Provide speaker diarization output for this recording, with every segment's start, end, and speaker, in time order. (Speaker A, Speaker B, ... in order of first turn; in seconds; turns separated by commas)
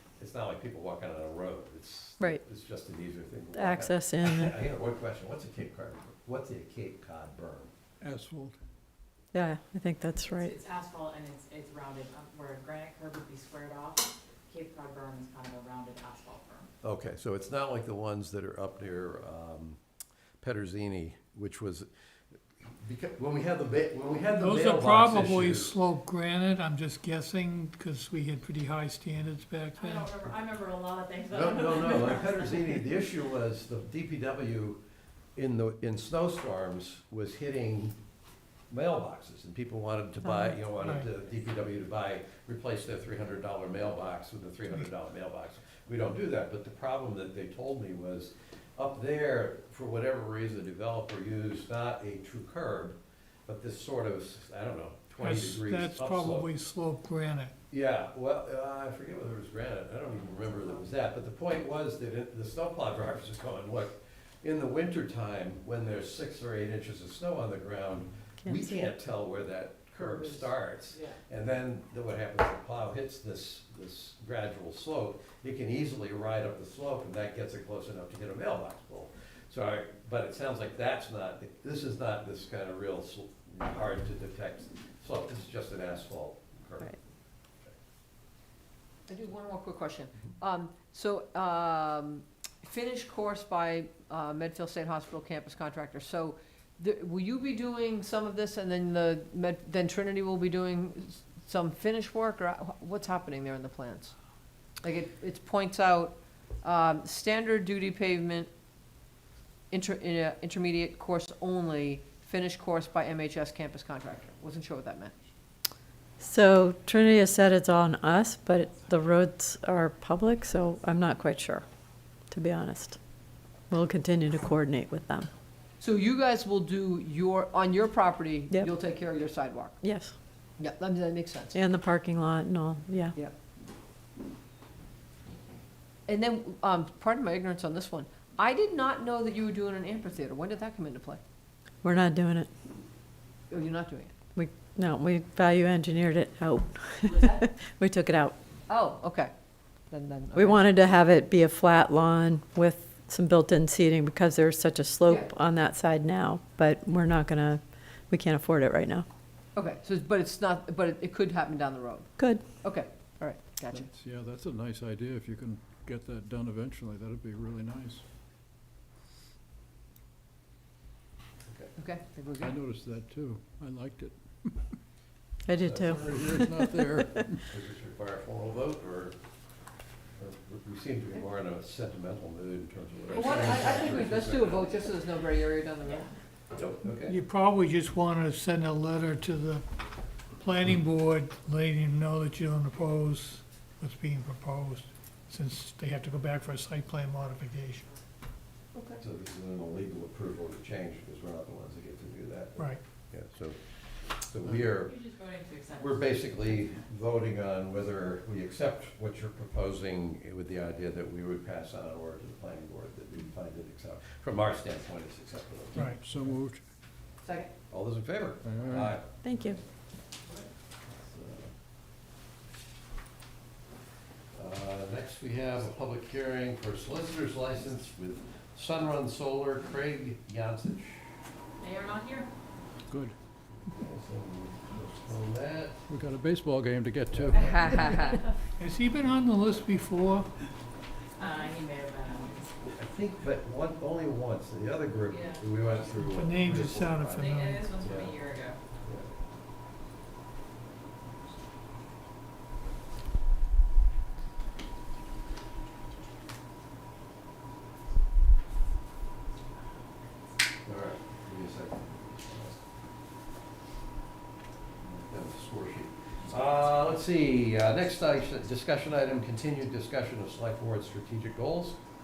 Speaker A: 0.2-7.7, Speaker B: 3.5-4.5, Speaker C: 8.0-8.6, Speaker B: 9.3-10.5, Speaker D: 10.3-16.7, Speaker A: 16.8-19.8, Speaker A: 20.4-21.9, Speaker A: 22.6-25.7, Speaker E: 24.3-30.1, Speaker D: 29.7-32.8, Speaker A: 31.3-34.8, Speaker A: 35.3-38.0, Speaker A: 38.7-56.5, Speaker B: 40.2-40.5, Speaker E: 40.8-41.1, Speaker E: 55.2-57.5, Speaker A: 57.7-87.8, Speaker B: 68.4-68.9, Speaker D: 70.0-71.2, Speaker F: 89.1-104.2, Speaker F: 104.8-108.5, Speaker F: 109.7-115.1, Speaker B: 116.2-121.7, Speaker B: 122.3-123.0, Speaker B: 123.7-125.3, Speaker F: 125.8-129.8, Speaker B: 129.8-130.2, Speaker F: 130.6-131.6, Speaker B: 131.5-133.2, Speaker F: 136.1-141.2, Speaker B: 141.8-142.5, Speaker F: 143.5-144.1, Speaker B: 144.3-148.4, Speaker F: 147.1-147.4, Speaker F: 148.7-149.3, Speaker F: 149.9-150.6, Speaker B: 150.3-159.1, Speaker F: 155.1-155.3, Speaker F: 159.6-163.9, Speaker B: 162.2-162.4, Speaker C: 163.7-168.0, Speaker A: 171.4-171.7, Speaker F: 171.8-172.6, Speaker C: 172.4-174.8, Speaker B: 175.5-177.2, Speaker A: 175.6-176.4, Speaker C: 176.0-177.4, Speaker A: 177.3-179.2, Speaker A: 180.2-184.8, Speaker F: 183.1-186.1, Speaker D: 185.8-186.2, Speaker A: 186.5-187.2, Speaker E: 187.0-189.6, Speaker E: 190.3-197.9, Speaker F: 198.7-199.0, Speaker A: 199.0-204.9, Speaker D: 204.8-206.7, Speaker A: 205.8-216.4, Speaker C: 215.8-216.6, Speaker F: 217.2-217.5, Speaker A: 217.7-219.6, Speaker C: 218.4-219.0, Speaker B: 219.2-219.6, Speaker A: 220.9-221.5, Speaker A: 224.3-231.1, Speaker D: 231.6-232.3, Speaker C: 232.9-233.2, Speaker A: 233.7-235.8, Speaker C: 235.9-238.1, Speaker A: 237.1-237.8, Speaker F: 237.3-238.2, Speaker E: 238.6-240.3, Speaker D: 241.2-242.6, Speaker A: 242.7-249.1, Speaker D: 245.1-245.5, Speaker E: 245.9-247.6, Speaker D: 247.2-248.6, Speaker A: 260.6-262.6, Speaker A: 264.8-271.8